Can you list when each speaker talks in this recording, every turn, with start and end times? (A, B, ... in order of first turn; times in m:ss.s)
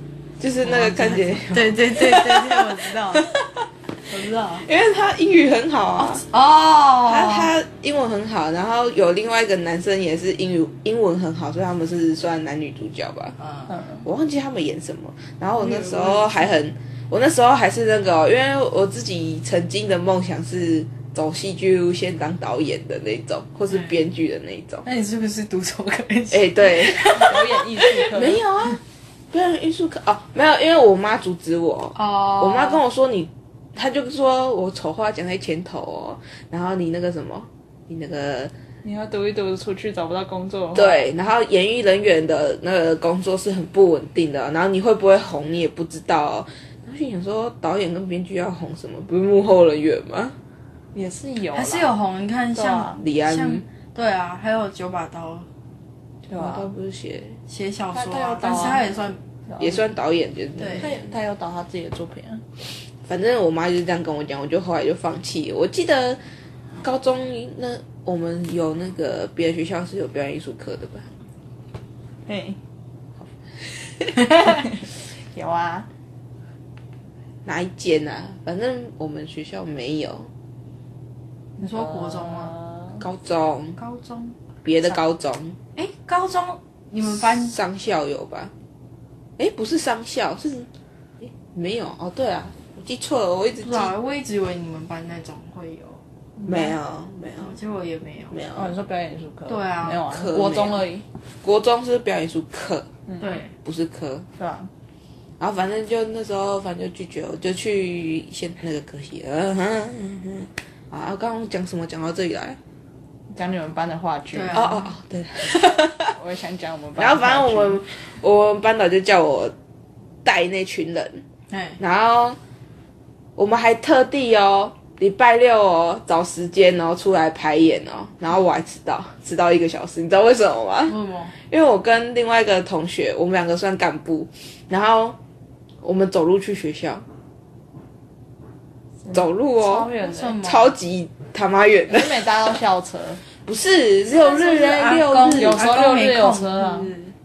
0:00.4-0:03.2 A
0:00.6-0:03.3 B
0:04.1-0:04.7 B
0:04.6-0:06.2 A
0:06.0-0:07.5 B
0:07.1-0:13.4 A
0:13.4-0:13.7 B
0:13.7-0:14.0 C
0:14.0-0:24.8 A
0:15.6-0:16.5 B
0:24.8-0:28.1 B
0:26.3-0:27.2 A
0:27.2-0:28.4 C
0:28.1-0:28.8 A
0:29.3-0:38.5 A
0:32.0-0:32.8 B
0:38.8-0:41.0 C
0:40.7-0:50.4 A
0:50.9-0:51.9 C
0:51.5-0:55.5 B
0:52.6-0:53.0 C
0:53.0-0:53.6 A
0:56.3-0:56.7 C
0:56.4-0:57.4 A
0:57.5-0:59.2 B
0:57.9-0:59.8 C
0:59.6-1:01.0 A
1:00.6-1:00.9 B
1:00.8-1:02.4 C
1:03.1-1:06.2 A
1:06.8-1:11.1 A
1:12.3-1:12.6 C
1:14.0-1:15.9 C
1:17.4-1:20.3 A
1:21.6-1:22.6 B
1:21.6-1:23.0 C
1:23.0-1:23.8 A
1:23.8-1:24.4 B
1:24.6-1:25.6 A
1:25.8-1:27.6 B
1:27.2-1:28.5 A
1:29.4-1:30.7 A
1:31.2-1:33.9 A
1:33.6-1:36.0 B
1:36.4-1:36.7 C
1:36.4-1:37.6 A
1:37.4-1:38.4 B
1:38.3-1:38.7 A
1:38.6-1:41.0 C
1:39.5-1:40.0 B
1:40.1-1:40.8 A
1:41.4-1:42.9 A
1:43.2-1:43.5 B
1:43.6-1:44.2 A
1:44.4-1:44.7 C
1:45.4-1:52.6 A
1:53.3-1:54.7 C
1:54.3-1:54.9 B
1:54.5-1:56.1 A
1:56.0-1:57.8 C
1:57.0-1:59.5 A
2:00.2-2:01.2 A
2:01.5-2:01.8 B
2:01.8-2:02.4 A
2:03.4-2:15.2 A
2:10.9-2:11.4 B
2:15.8-2:17.0 A
2:19.0-2:20.4 C
2:19.1-2:19.9 A
2:20.0-2:20.7 B
2:20.4-2:22.2 A
2:21.9-2:23.2 C
2:23.4-2:25.6 A
2:24.1-2:27.1 B
2:25.3-2:26.9 C